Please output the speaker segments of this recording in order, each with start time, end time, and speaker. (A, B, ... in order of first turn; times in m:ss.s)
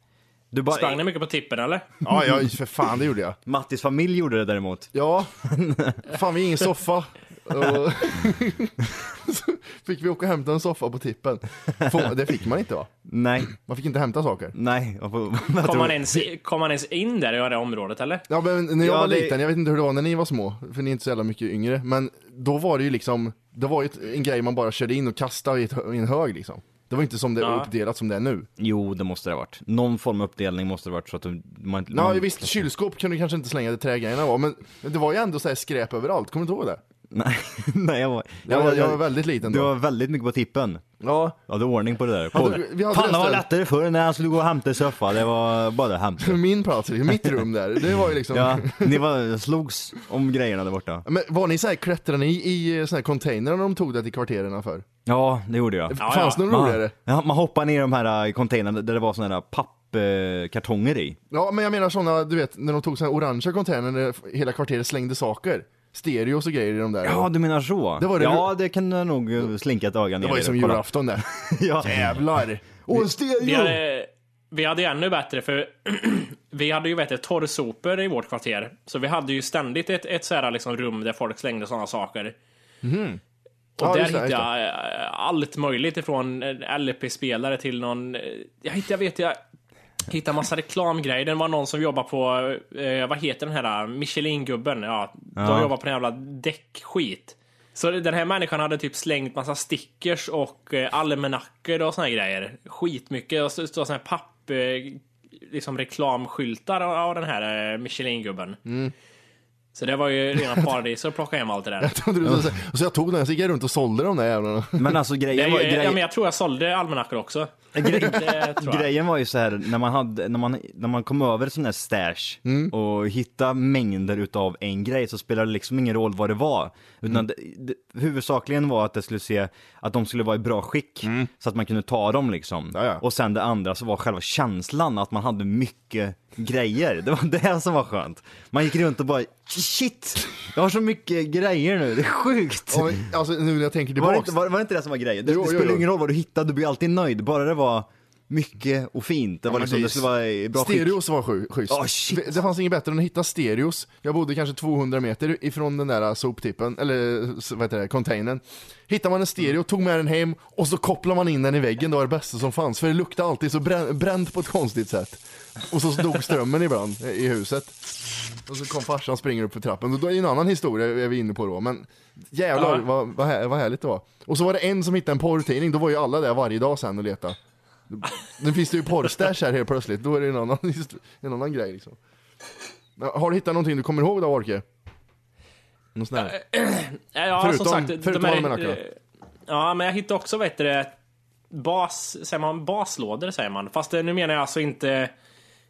0:00.5-0:01.0 A
0:00.7-0:01.9 B
0:02.0-0:03.4 C
0:03.5-0:06.0 A
0:04.9-0:05.4 C
0:06.0-0:12.9 C
0:13.1-0:13.5 A
0:13.5-0:14.5 C
0:14.5-0:16.3 A
0:15.6-0:18.2 B
0:18.3-0:28.5 C
0:18.8-0:19.4 A
0:27.4-0:27.7 B
0:28.6-0:32.6 A
0:31.9-0:36.8 C
0:37.1-0:40.8 A
0:38.5-0:39.7 C
0:41.0-0:41.4 C
0:41.5-0:46.4 A
0:42.3-0:43.5 C
0:46.2-0:49.0 C
0:48.3-0:51.0 A
0:51.0-0:54.9 C
0:55.1-1:01.2 A
0:55.9-0:56.9 C
0:56.0-0:56.4 B
1:01.3-1:07.3 C
1:07.0-1:12.2 A
1:08.0-1:08.5 C
1:10.2-1:11.2 C
1:11.8-1:13.2 C
1:12.9-1:13.7 A
1:13.4-1:22.4 B
1:22.8-1:23.2 C
1:23.8-1:29.4 B
1:23.8-1:24.5 C
1:30.1-1:48.6 B
1:35.4-1:35.7 A
1:48.7-1:48.9 C
1:49.8-1:51.9 B
1:51.8-1:55.0 C
1:54.8-1:56.0 A
1:55.3-1:58.9 B
1:57.7-2:23.0 A
2:02.4-2:02.7 C
2:11.0-2:11.3 C
2:12.7-2:13.0 C
2:22.7-2:24.4 C
2:24.0-2:31.0 A
2:25.2-2:25.9 C
2:29.5-2:47.8 C
2:31.7-2:32.4 A
2:48.5-2:57.4 C
2:52.6-2:52.8 B
2:57.9-3:02.0 C
3:03.0-3:04.6 C
3:06.0-3:06.4 C
3:06.2-3:09.0 B
3:07.4-3:08.8 C
3:09.5-3:11.0 B
3:11.5-3:15.1 B